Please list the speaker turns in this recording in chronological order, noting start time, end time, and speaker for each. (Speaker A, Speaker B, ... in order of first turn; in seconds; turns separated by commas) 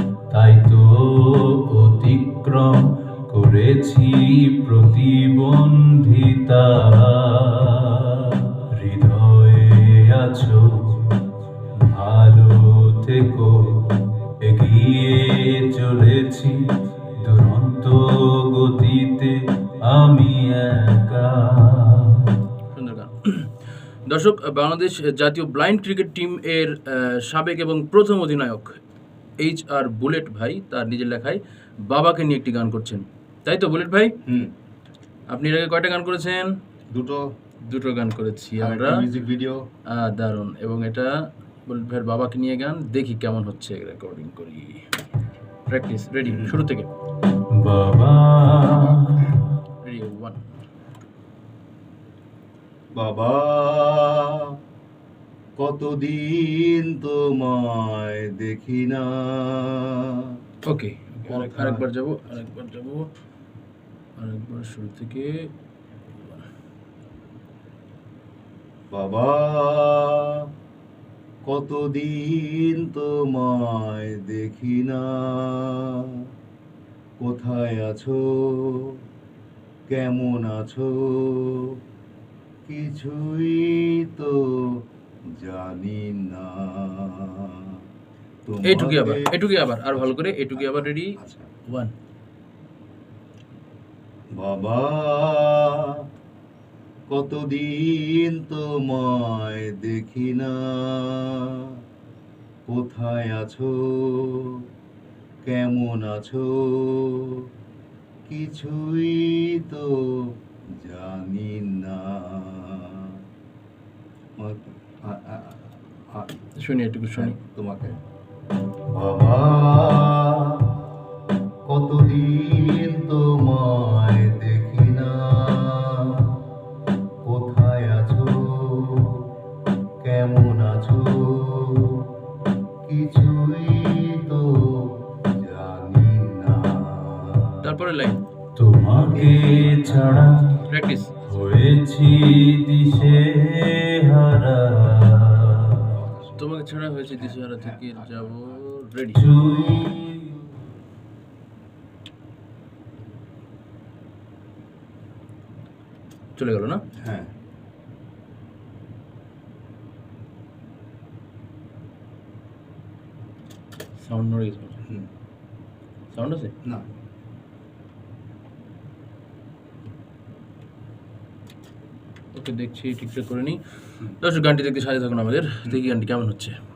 Speaker A: 0.3-11.1, Speaker A: 11.8-16.6, Speaker A: 17.2-22.3, Speaker B: 22.7-23.5, Speaker B: 24.1-28.8, Speaker B: 29.4-34.1, Speaker B: 35.3-36.5, Speaker C: 36.9-37.2, Speaker B: 37.7-39.0, Speaker C: 38.6-39.6, Speaker B: 39.9-41.1, Speaker B: 41.7-44.8, Speaker B: 45.7-46.9, Speaker C: 46.2-46.6, Speaker A: 47.6-49.4, Speaker B: 49.8-50.4, Speaker C: 53.0-54.4, Speaker C: 55.6-60.1, Speaker B: 60.6-63.1, Speaker C: 61.3-61.9, Speaker B: 64.2-65.5, Speaker C: 68.9-70.3, Speaker C: 71.5-76.1, Speaker C: 77.2-78.9, Speaker C: 79.9-81.7, Speaker C: 82.7-84.4, Speaker C: 85.3-87.7, Speaker C: 88.5-91.5, Speaker B: 88.6-91.2, Speaker B: 91.7-91.9, Speaker C: 94.4-95.9, Speaker C: 97.1-101.6, Speaker C: 102.7-104.5, Speaker C: 105.4-107.4, Speaker C: 108.3-109.9, Speaker C: 110.8-113.2, Speaker C: 114.4-116.3, Speaker B: 116.6-117.4, Speaker C: 117.1-118.0, Speaker C: 118.9-120.7, Speaker C: 121.7-126.4, Speaker C: 127.2-129.2, Speaker C: 130.0-132.1, Speaker C: 132.8-134.6, Speaker C: 135.4-137.6, Speaker B: 137.6-138.2, Speaker A: 138.6-140.6, Speaker C: 138.9-141.2, Speaker B: 140.7-141.2, Speaker A: 141.3-145.8, Speaker C: 142.9-143.4, Speaker C: 145.9-146.5, Speaker B: 146.4-149.2, Speaker C: 147.1-148.6, Speaker A: 149.2-149.9, Speaker C: 149.2-150.6, Speaker B: 156.4-156.8, Speaker C: 157.0-157.3, Speaker B: 164.0-164.8, Speaker B: 166.1-166.5, Speaker B: 172.3-173.6, Speaker B: 174.1-176.6